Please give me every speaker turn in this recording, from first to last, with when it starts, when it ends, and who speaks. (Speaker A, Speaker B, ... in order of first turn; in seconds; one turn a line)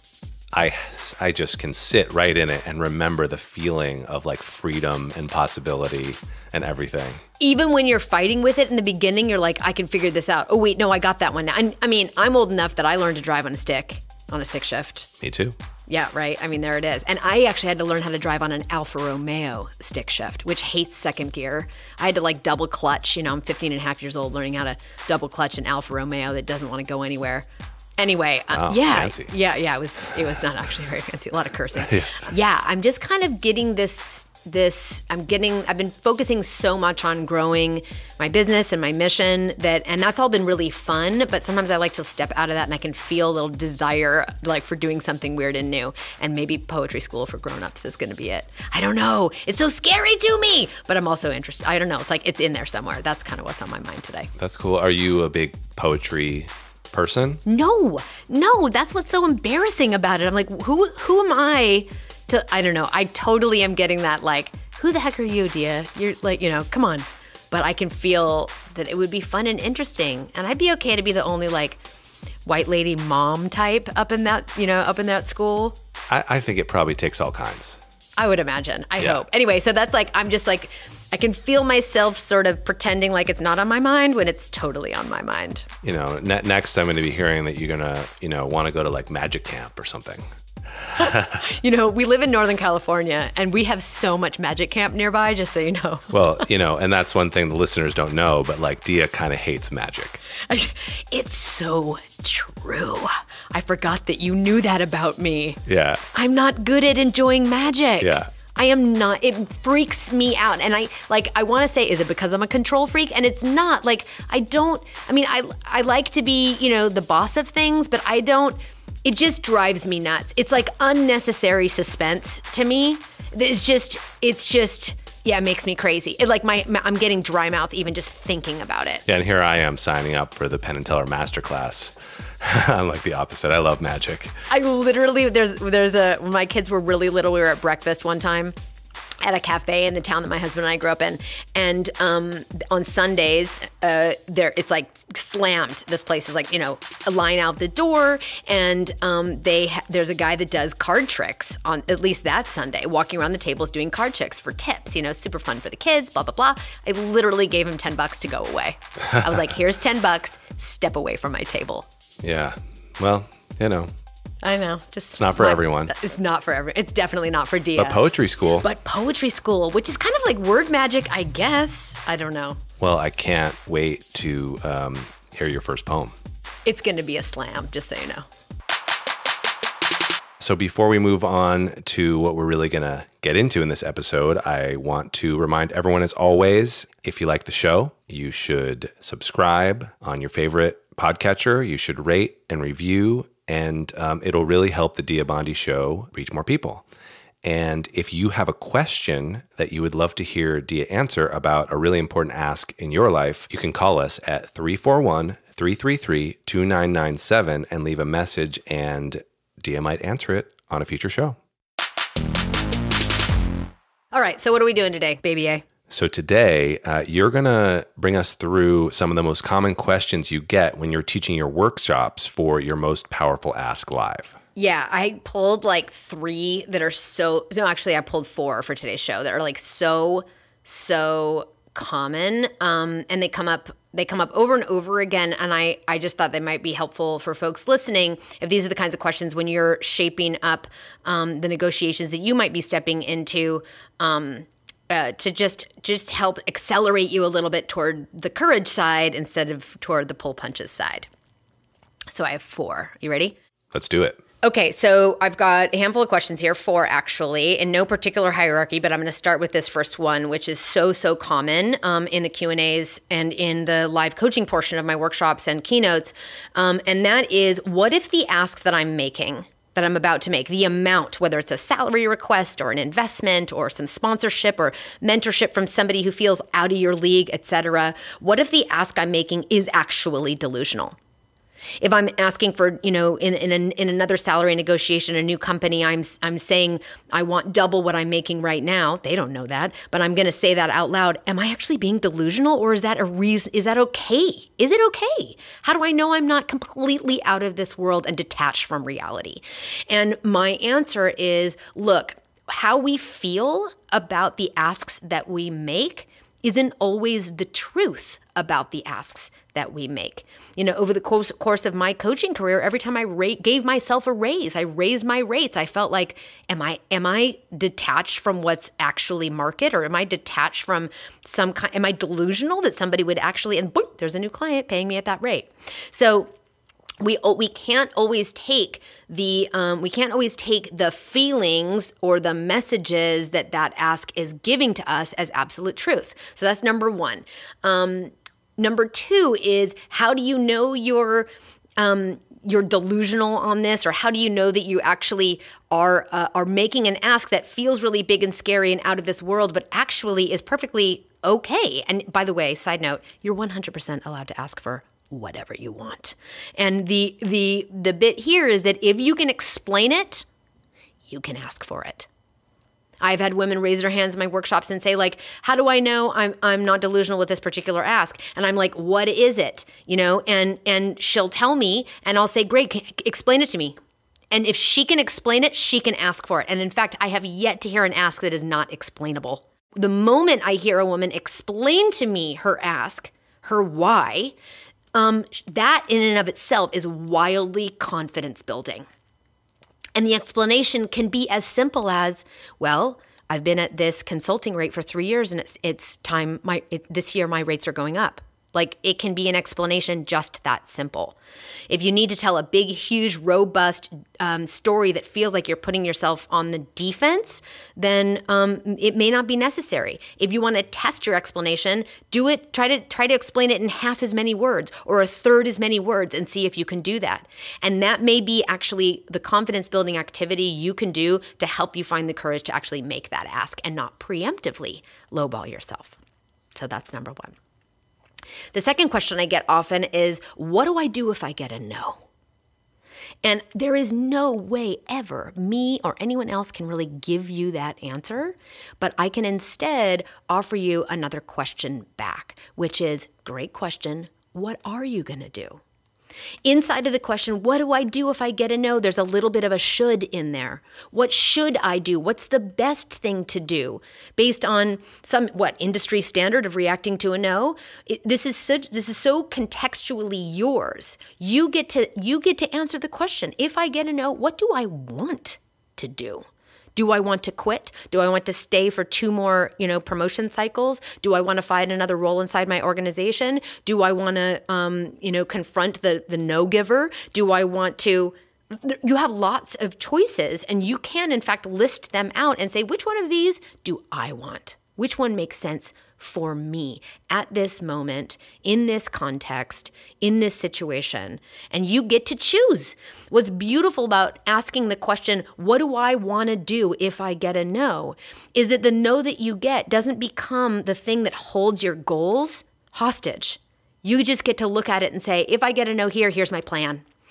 Speaker A: 0.5-7.2
Speaker B: 7.4-15.1
Speaker A: 15.2-15.6
Speaker B: 15.9-27.4
Speaker B: 28.0-54.3
Speaker A: 28.5-29.3
Speaker A: 31.9-32.3
Speaker A: 54.4-57.4
Speaker B: 57.4-71.8
Speaker B: 72.5-75.8
Speaker A: 76.1-77.8
Speaker B: 78.2-85.7
Speaker A: 85.8-90.2
Speaker A: 90.8-91.4
Speaker B: 91.0-96.2
Speaker A: 96.1-100.2
Speaker B: 100.5-105.6
Speaker A: 105.7-106.0
Speaker B: 106.1-129.1
Speaker A: 108.0-108.3
Speaker A: 129.1-134.3
Speaker B: 134.5-138.5
Speaker B: 139.2-161.8
Speaker A: 162.2-163.9
Speaker B: 164.4-172.6
Speaker A: 165.2-165.9
Speaker A: 167.8-168.7
Speaker A: 172.8-176.1
Speaker B: 176.7-178.2
Speaker A: 180.4-196.8
Speaker A: 197.4-211.4
Speaker B: 214.1-215.6
Speaker A: 215.9-224.4
Speaker B: 224.6-251.1
Speaker B: 252.1-253.3
Speaker A: 253.7-254.2
Speaker B: 254.4-281.0
Speaker B: 281.8-326.3
Speaker B: 327.0-360.2
Speaker B: 361.1-362.1
Speaker B: 363.0-373.8
Speaker B: 374.3-384.3
Speaker B: 384.9-388.9
Speaker B: 389.9-401.2
Speaker B: 401.7-426.0
Speaker B: 426.5-427.3
Speaker B: 428.5-432.0
Speaker B: 433.2-445.6
Speaker B: 446.4-506.8